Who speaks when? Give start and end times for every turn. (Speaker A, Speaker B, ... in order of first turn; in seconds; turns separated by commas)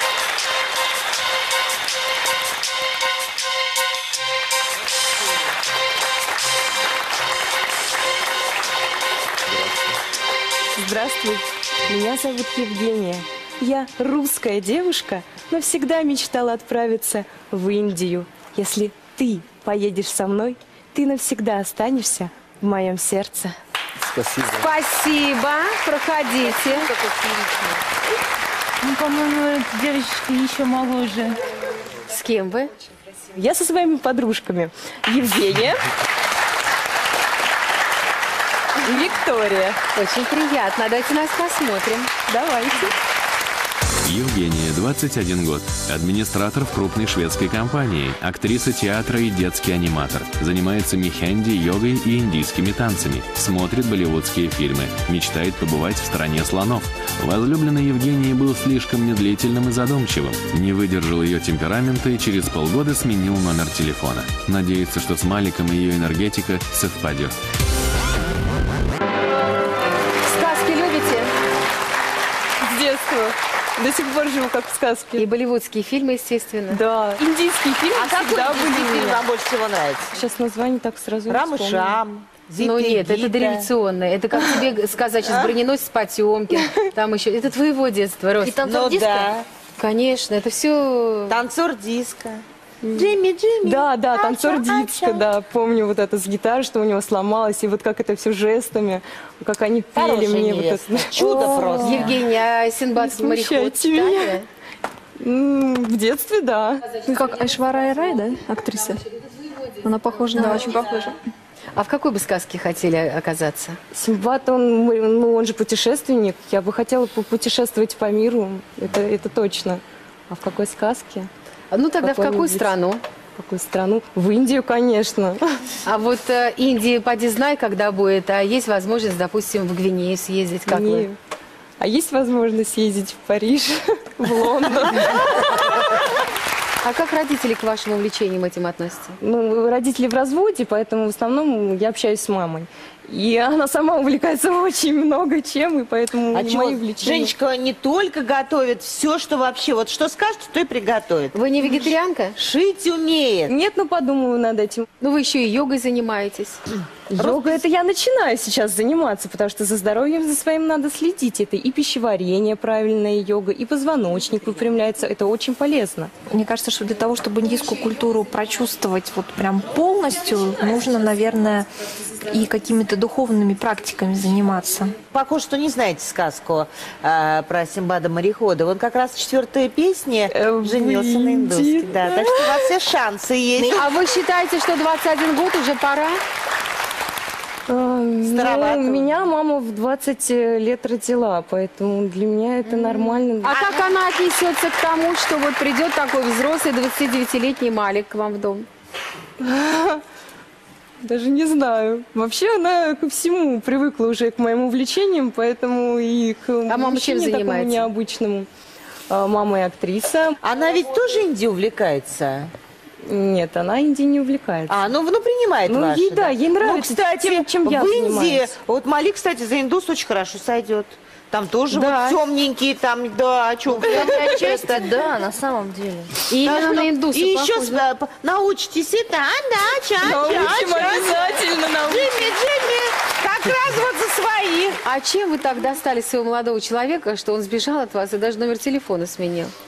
Speaker A: 10.8-23.6, Speaker B: 24.4-26.9, Speaker C: 28.8-31.4, Speaker B: 32.1-32.7, Speaker A: 33.3-35.8, Speaker A: 38.8-39.8, Speaker B: 40.0-42.1, Speaker A: 42.3-42.9, Speaker D: 44.0-67.3, Speaker B: 70.3-71.3, Speaker A: 72.6-75.3, Speaker B: 75.2-76.8, Speaker A: 76.7-79.2, Speaker E: 77.9-80.2, Speaker A: 80.1-82.0, Speaker E: 81.3-83.7, Speaker B: 82.6-88.5, Speaker E: 85.3-85.5, Speaker F: 88.4-89.3, Speaker E: 88.6-89.5, Speaker B: 89.8-91.4, Speaker E: 91.3-95.3, Speaker A: 92.9-102.1, Speaker E: 100.0-102.2, Speaker B: 101.8-104.5, Speaker A: 103.0-104.4, Speaker A: 105.2-106.8, Speaker G: 107.0-109.0, Speaker G: 109.8-111.2, Speaker B: 110.3-110.8, Speaker B: 111.8-113.8, Speaker A: 113.9-121.3, Speaker B: 121.7-123.0, Speaker A: 122.0-122.7, Speaker A: 123.4-125.6, Speaker B: 125.8-131.1, Speaker A: 130.7-131.2, Speaker A: 131.8-135.8, Speaker B: 136.8-139.2, Speaker A: 139.2-147.3, Speaker E: 146.3-153.5, Speaker B: 151.3-152.4, Speaker A: 153.5-154.9, Speaker B: 155.0-156.6, Speaker A: 157.1-166.1, Speaker E: 157.2-157.6, Speaker H: 166.3-171.7, Speaker H: 172.3-175.0, Speaker E: 175.1-183.9, Speaker A: 180.3-182.7, Speaker B: 183.7-186.2, Speaker A: 187.7-193.6, Speaker E: 188.2-189.3, Speaker B: 192.7-198.7, Speaker E: 193.5-193.8, Speaker A: 199.4-200.0, Speaker A: 201.0-208.5, Speaker B: 206.7-207.9, Speaker A: 209.1-210.4, Speaker E: 210.4-212.5, Speaker A: 213.1-214.9, Speaker E: 214.7-224.9, Speaker A: 215.7-218.5, Speaker A: 221.7-222.2, Speaker F: 223.8-226.1, Speaker A: 223.8-224.4, Speaker B: 226.3-227.8, Speaker E: 226.4-234.8, Speaker A: 230.0-232.4, Speaker B: 234.8-239.5